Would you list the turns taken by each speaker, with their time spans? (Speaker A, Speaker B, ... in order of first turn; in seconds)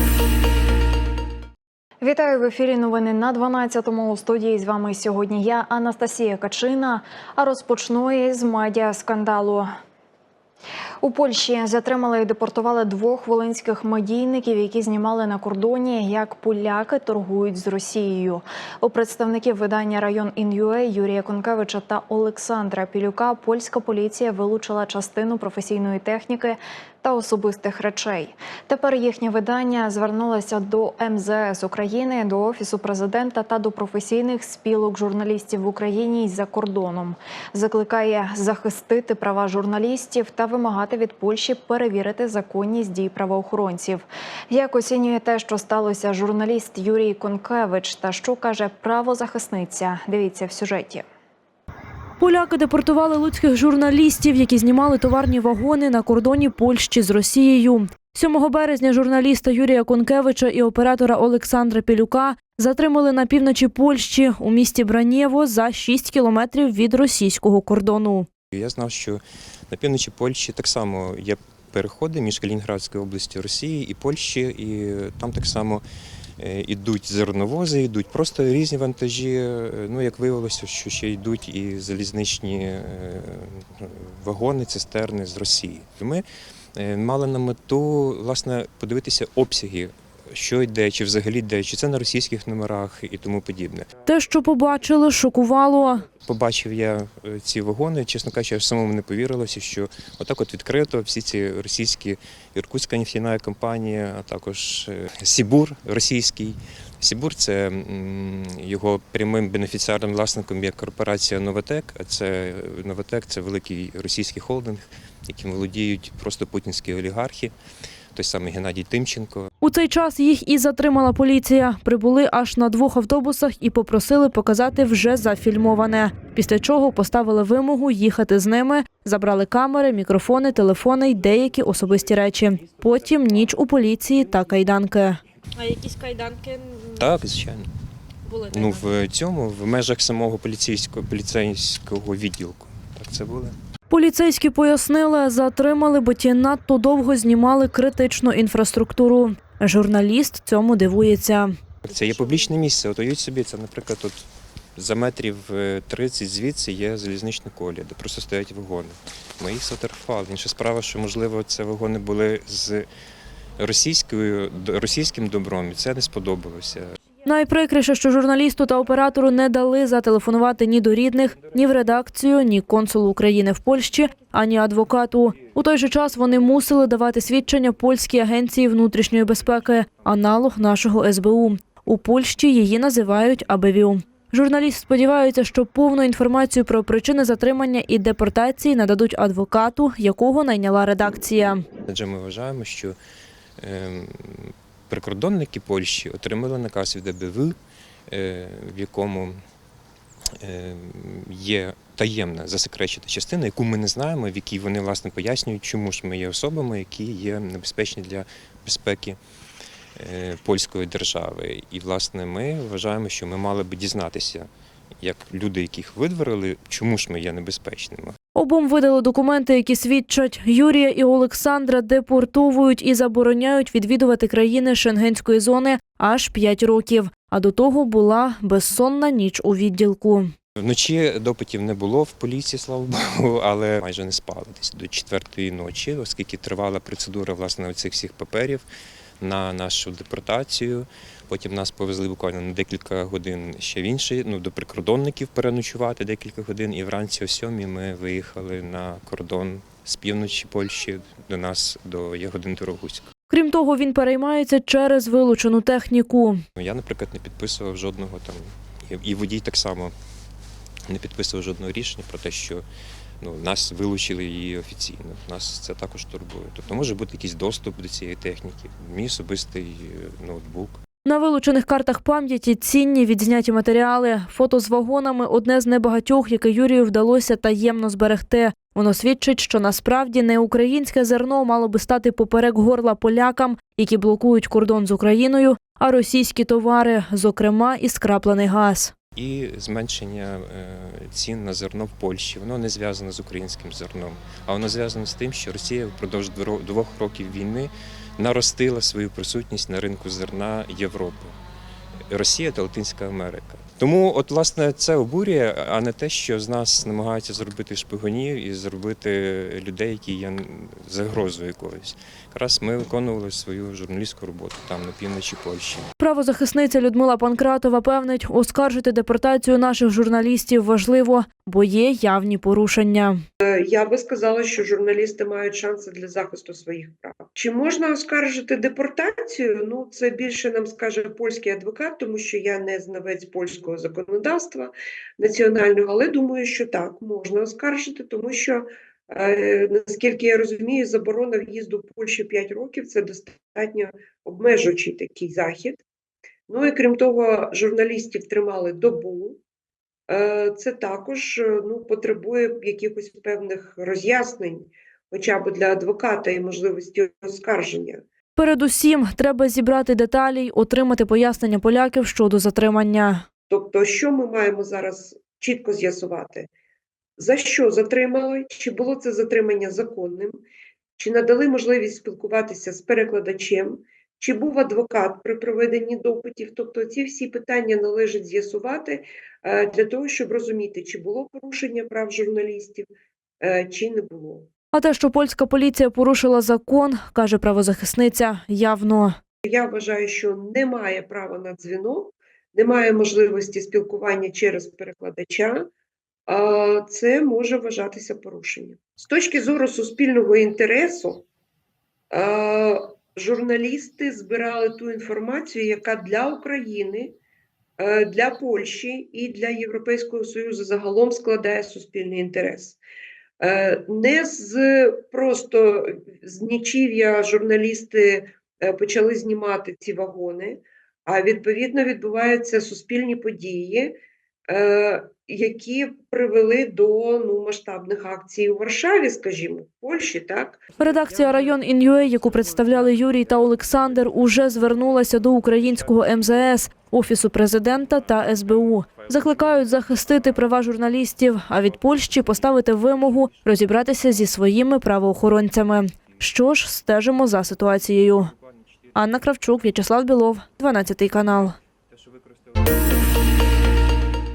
Speaker A: 2.0-9.7, 11.0-51.0
Speaker B: 52.2-68.3, 94.1-96.1, 119.6-135.2, 143.9-151.6, 167.3-191.6, 218.3-230.3, 253.3-256.4, 271.1-288.9, 316.0-323.2, 358.4-363.2, 384.7-389.2, 430.8-448.3, 448.9-451.6
Speaker C: 68.5-75.8, 76.4-93.9, 96.2-117.5, 118.2-119.5, 137.0-137.7, 138.5-143.6, 151.8-162.9, 163.6-166.9, 191.9-193.0, 193.6-197.6, 198.1-199.4, 200.4-209.2, 210.0-214.5, 215.0-218.2, 230.6-238.7, 239.2-253.1, 256.6-259.9, 260.9-262.6, 263.2-270.8, 289.1-301.3, 302.1-315.9
Speaker D: 323.4-345.8, 346.5-349.4, 350.1-358.0, 363.5-366.5, 367.2-370.4, 371.0-382.9, 383.4-384.5, 389.5-395.7, 396.3-401.2, 402.1-407.2, 407.8-412.8, 413.4-424.0, 424.5-430.6